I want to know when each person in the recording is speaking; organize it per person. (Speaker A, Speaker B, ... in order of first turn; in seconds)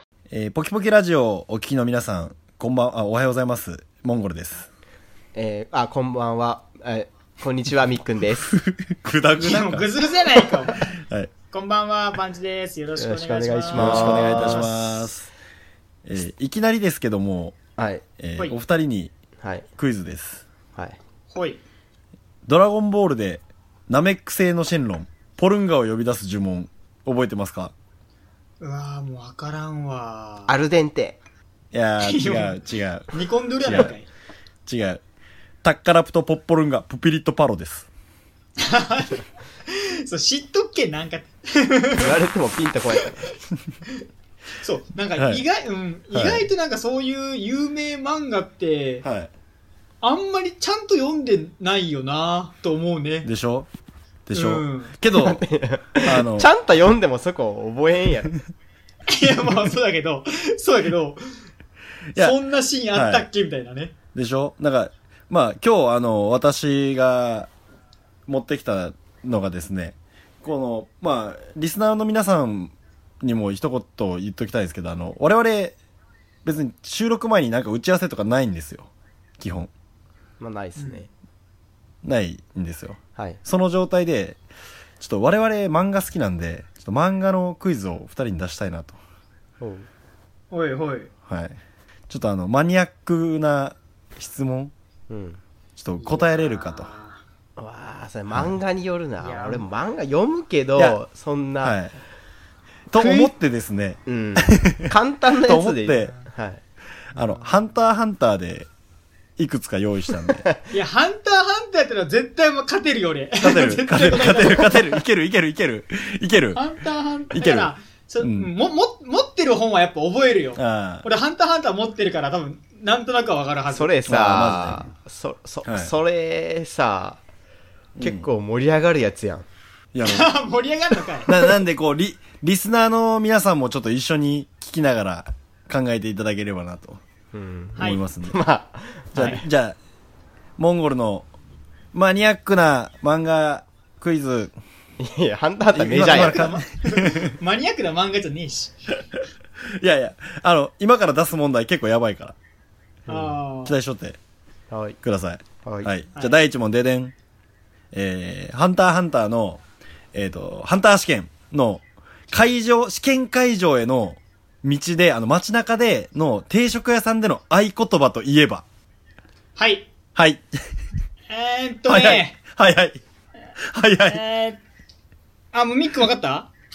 Speaker A: 0.3-4.7, 8.4-11.3, 13.7-15.3, 16.1-17.6, 18.2-19.1, 19.8-20.4, 22.5-27.7, 31.7-33.9, 34.7-35.0, 35.6-37.9, 45.2-45.4, 46.1-46.5, 49.0-49.3, 53.2-53.7, 54.3-55.4, 56.0-56.5, 62.1-62.4, 62.9-63.3, 64.1-67.5, 68.3-75.8, 76.5-78.9, 79.4-79.7, 82.0-84.4, 85.0-89.0, 91.3-91.6, 92.1-94.7, 95.8-96.9, 101.6-101.9, 102.9-104.9, 105.4-106.2, 107.2-108.7, 109.4-110.4, 113.4-116.6, 117.3-118.5, 120.5-121.1, 124.1-124.9, 125.7-125.9, 128.0-128.3, 129.9-130.3, 131.2-137.0, 137.8-138.4, 139.1-139.8, 140.6-141.3, 141.9-144.6, 145.7-147.3, 149.8-152.3, 153.6-154.2, 155.0-157.1, 157.9-159.6, 160.1-168.7, 170.2-170.5, 171.9-173.0, 173.6-174.2
Speaker B: 5.3-8.5, 13.0-15.1, 17.8-18.0, 19.4-19.7, 30.5-31.2, 42.0-43.3, 55.2-58.4, 80.4-81.1, 89.6-89.9, 95.1-95.4, 97.6-101.8, 103.0-103.3, 104.1-106.6, 123.7-127.2, 128.0-129.5, 137.3-139.2, 145.0-146.5, 153.1-153.4, 154.7-155.0, 155.6-155.9
Speaker C: 9.4-10.9, 11.5-14.7, 21.3-21.6, 28.6-30.6, 32.0-34.1, 38.6-42.1, 44.6-49.0, 50.0-53.3, 54.3-55.0, 59.1-61.4, 62.1-63.9, 80.8-81.0, 90.5-91.1, 96.0-97.2, 99.2-99.7, 107.2-107.6, 110.7-114.8, 116.5-124.0, 130.0-131.3, 137.8-138.0, 139.2-139.4, 145.9-148.9, 153.1-153.8, 169.6-169.9, 171.3-172.4, 174.1-174.6, 175.5-176.5